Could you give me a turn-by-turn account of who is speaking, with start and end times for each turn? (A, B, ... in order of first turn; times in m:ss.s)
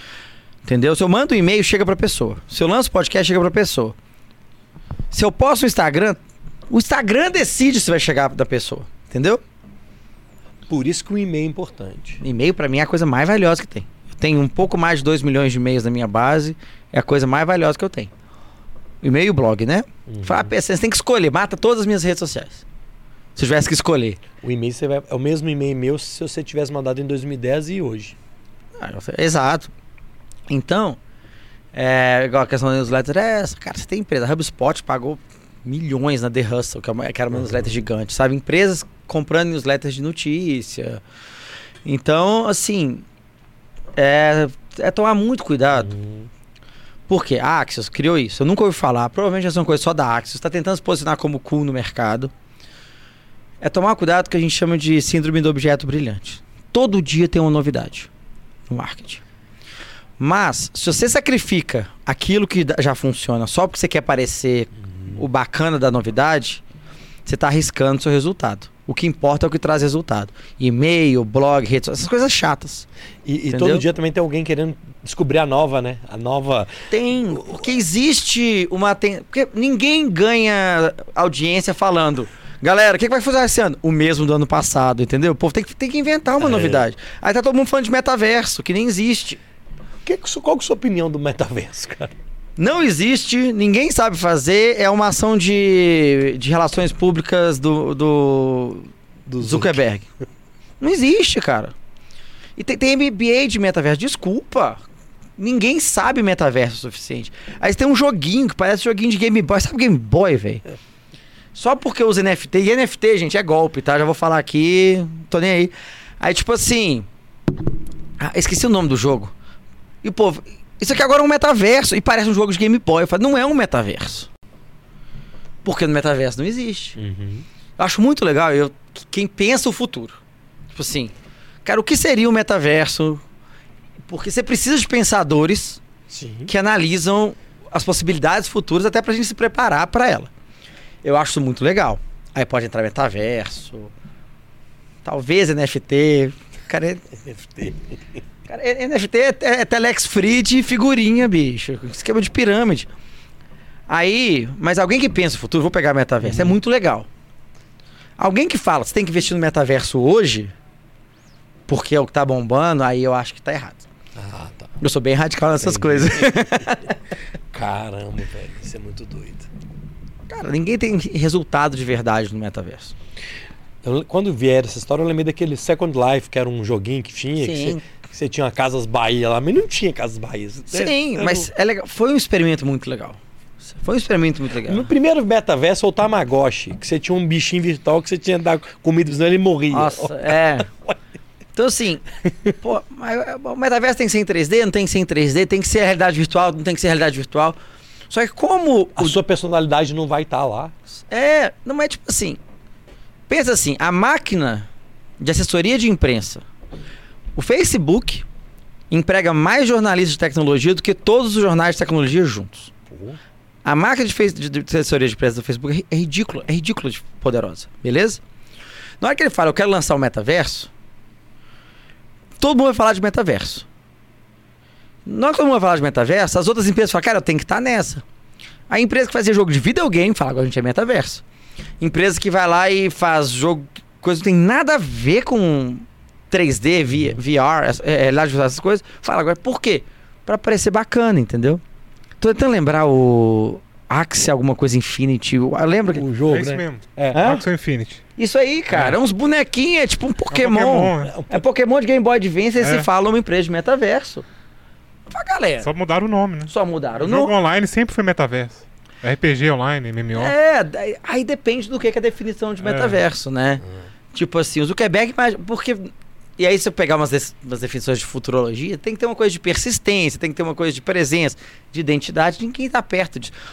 0:00.6-0:04.0 A
0:05.1-0:09.4 A
0:10.7-0:12.2 B
0:12.2-0:18.1 A
0:19.0-0:22.6 A
0:20.1-0:20.5 B
0:23.4-0:24.2 A
0:24.4-0:28.2 B
0:28.8-0:29.7 A
0:30.5-0:31.0 A
0:31.7-0:41.0 A
0:41.8-0:43.0 A
0:44.0-0:45.9 A
0:45.8-0:46.3 B
0:47.1-0:52.3 A
0:53.6-0:58.1 A
0:58.7-0:59.2 A
1:00.2-1:06.6 A
1:04.8-1:05.2 B
1:07.3-1:12.9 A
1:13.3-1:16.8 B
1:13.5-1:13.8 A
1:16.9-1:29.4 A
1:26.4-1:26.8 B
1:30.0-1:32.1 B
1:32.6-1:38.9 A
1:39.3-1:39.8 B
1:39.4-1:40.1 A
1:40.8-1:41.7 A
1:42.6-1:44.8 A
1:45.4-1:50.6 A
1:51.5-1:57.1 A
1:58.2-1:59.3 A
2:00.0-2:04.3 A
2:05.6-2:07.0 A
2:07.0-2:07.5 B
2:07.8-2:10.2 A
2:10.7-2:11.1 A
2:11.6-2:13.2 A
2:14.1-2:15.8 A
2:16.1-2:16.5 B
2:16.5-2:20.3 A
2:21.0-2:23.9 A
2:25.0-2:27.1 A
2:27.1-2:28.0 B
2:28.5-2:32.9 A
2:33.9-2:37.1 A
2:36.2-2:36.6 B
2:38.2-2:40.5 A
2:41.7-2:43.8 A
2:44.2-2:44.7 B
2:44.8-2:46.9 A
2:45.6-2:46.3 B
2:47.5-2:49.5 B
2:50.3-2:52.9 A
2:53.8-3:01.5 B
2:57.4-2:57.8 A
3:00.7-3:03.2 A
3:03.7-3:04.9 A
3:04.6-3:11.0 B
3:09.7-3:10.7 A
3:11.6-3:12.0 A
3:12.6-3:17.6 A
3:18.1-3:19.2 A
3:19.0-3:20.7 B
3:21.0-3:22.4 A
3:23.3-3:24.7 A
3:25.2-3:26.4 A
3:27.4-3:28.3 A
3:28.9-3:32.7 A
3:32.9-3:33.2 B
3:33.6-3:38.2 A
3:39.0-3:40.7 A
3:42.4-3:43.7 A
3:45.0-3:48.0 A
3:48.7-3:51.2 A
3:51.8-4:01.6 A
4:02.2-4:06.1 A
4:05.9-4:07.3 B
4:06.3-4:08.0 C
4:07.1-4:07.4 A
4:08.2-4:14.3 A
4:10.3-4:11.2 C
4:11.1-4:11.4 B
4:12.6-4:12.9 C
4:15.1-4:15.7 A
4:15.6-4:20.3 C
4:16.5-4:17.3 A
4:20.2-4:33.4 A
4:22.6-4:23.0 C